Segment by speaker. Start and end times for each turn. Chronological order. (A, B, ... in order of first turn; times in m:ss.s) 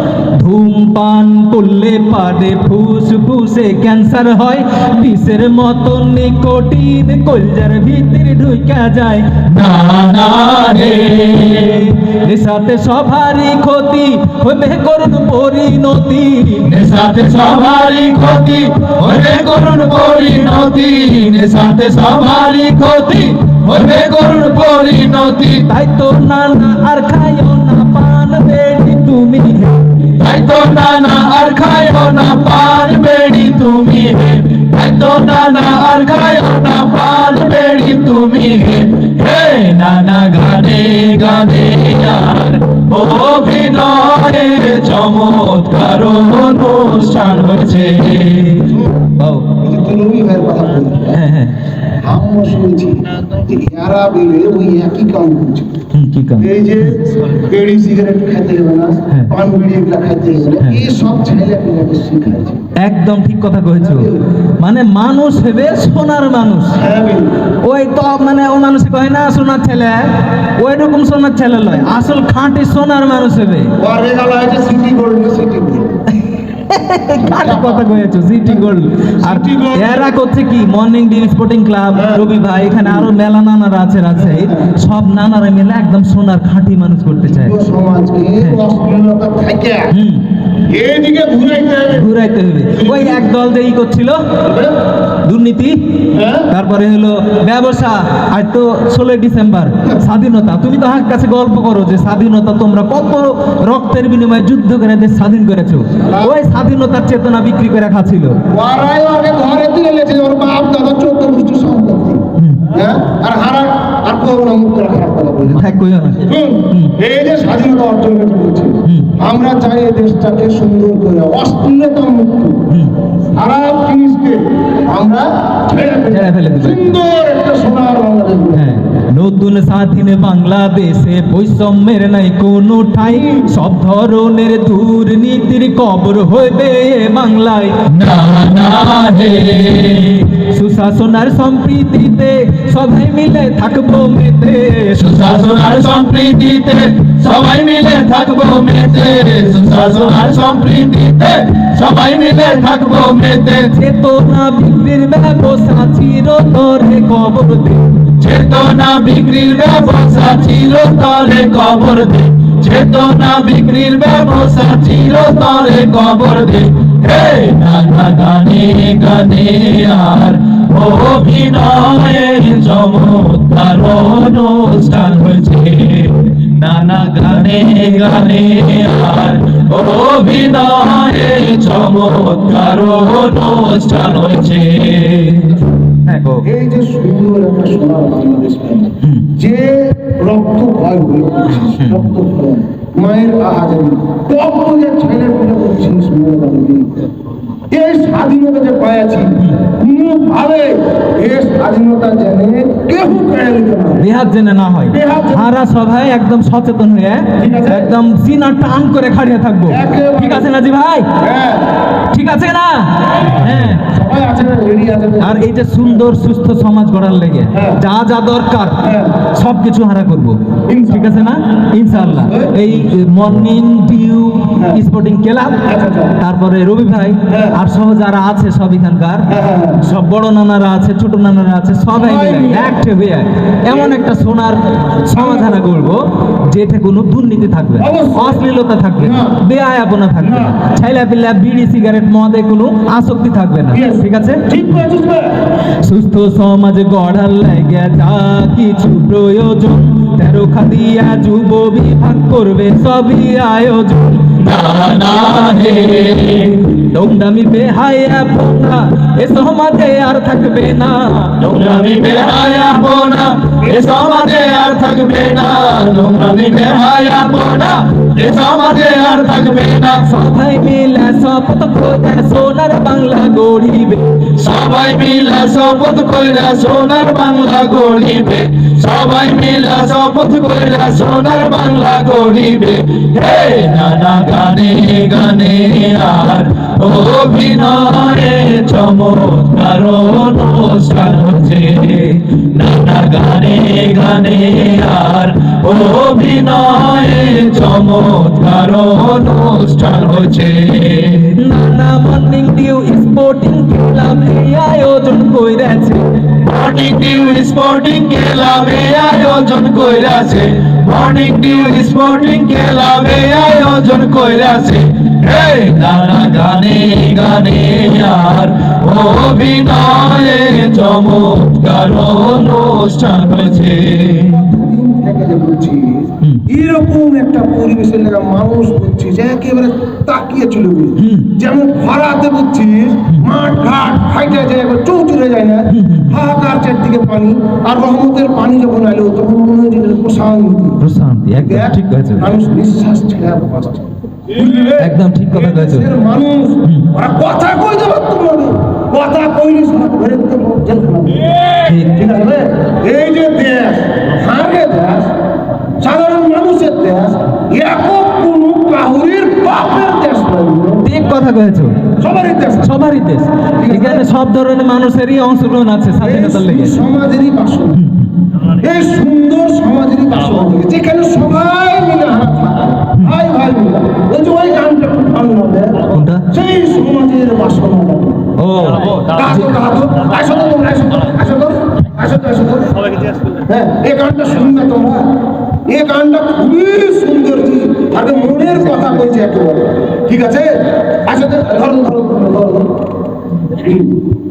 0:00.4-0:09.4 A
0:09.5-0:11.9 B
0:11.7-0:16.7 A
0:16.6-0:25.6 B
0:25.7-0:30.0 A
0:30.2-0:48.6 B
0:48.7-0:51.2 C
0:49.2-0:49.5 A
0:51.1-0:51.6 A
0:52.0-0:55.7 C
0:55.9-0:56.5 A
0:56.4-1:02.7 C
1:02.8-1:06.8 A
1:03.8-1:04.2 C
1:06.8-1:07.4 C
1:07.6-1:13.7 A
1:13.8-1:16.0 C
1:16.7-1:27.6 A
1:17.2-1:20.1 C
1:21.9-1:23.1 C
1:24.2-1:24.7 C
1:27.3-1:29.9 C
1:29.9-1:30.3 A
1:30.6-1:32.1 C
1:31.9-1:34.3 A
1:32.8-1:33.3 C
1:34.4-1:34.7 C
1:35.2-1:36.0 A
1:36.1-1:36.5 C
1:36.5-1:48.4 A
1:46.0-1:46.4 C
1:48.5-2:02.6 C
1:52.4-1:52.6 A
1:55.5-1:56.9 A
1:58.8-1:59.1 A
2:02.7-2:03.0 A
2:03.3-2:08.7 C
2:06.1-2:06.9 A
2:08.5-2:17.8 A
2:13.0-2:13.5 C
2:17.9-2:20.3 B
2:20.5-2:25.0 A
2:25.0-2:33.7 B
2:33.7-2:37.9 A
2:38.2-3:05.5 B
3:06.0-3:06.5 A
3:06.4-3:17.0 C
3:09.0-3:09.3 A
3:11.6-3:12.1 A
3:17.7-3:24.0 C
3:24.0-3:31.1 A
3:24.9-3:25.5 C
3:27.4-3:27.9 C
3:29.7-3:30.5 C
3:31.2-3:31.8 C
3:32.1-3:33.8 A
3:33.4-3:33.7 B
3:33.8-3:36.0 C
3:35.2-3:45.7 A
3:37.5-3:37.8 C
3:38.8-3:39.2 C
3:40.7-3:41.4 C
3:41.9-3:42.6 C
3:44.6-3:44.8 C
3:45.6-3:46.2 C
3:46.2-3:49.3 A
3:47.3-3:47.6 C
3:49.3-3:49.8 C
3:49.8-4:04.4 A
3:51.9-3:52.8 C
3:53.7-3:54.0 C
3:55.1-3:55.7 C
3:57.8-3:58.4 C
3:59.0-3:59.4 C
4:00.2-4:00.6 C
4:03.7-4:05.4 C
4:05.8-4:14.4 A
4:14.4-4:16.7 B
4:16.9-4:21.4 A
4:21.4-4:30.0 B
4:30.0-4:34.2 A
4:34.4-5:01.3 B
5:01.4-5:06.2 A
5:06.4-5:24.4 B
5:24.2-5:40.8 C
5:31.0-5:31.3 A
5:35.7-5:36.2 A
5:40.8-5:42.3 A
5:41.4-5:51.3 C
5:44.8-5:45.9 A
5:46.6-5:46.9 A
5:51.7-5:52.0 A
5:51.8-5:55.1 C
5:55.8-6:00.9 C
6:00.8-6:01.8 A
6:02.0-6:02.7 C
6:02.6-6:06.8 A
6:03.6-6:04.1 C
6:06.0-6:07.8 C
6:07.7-6:08.1 A
6:08.4-6:18.3 C
6:15.9-6:16.2 A
6:18.4-6:19.5 A
6:18.9-6:25.1 C
6:25.7-6:32.8 C
6:33.6-6:33.9 C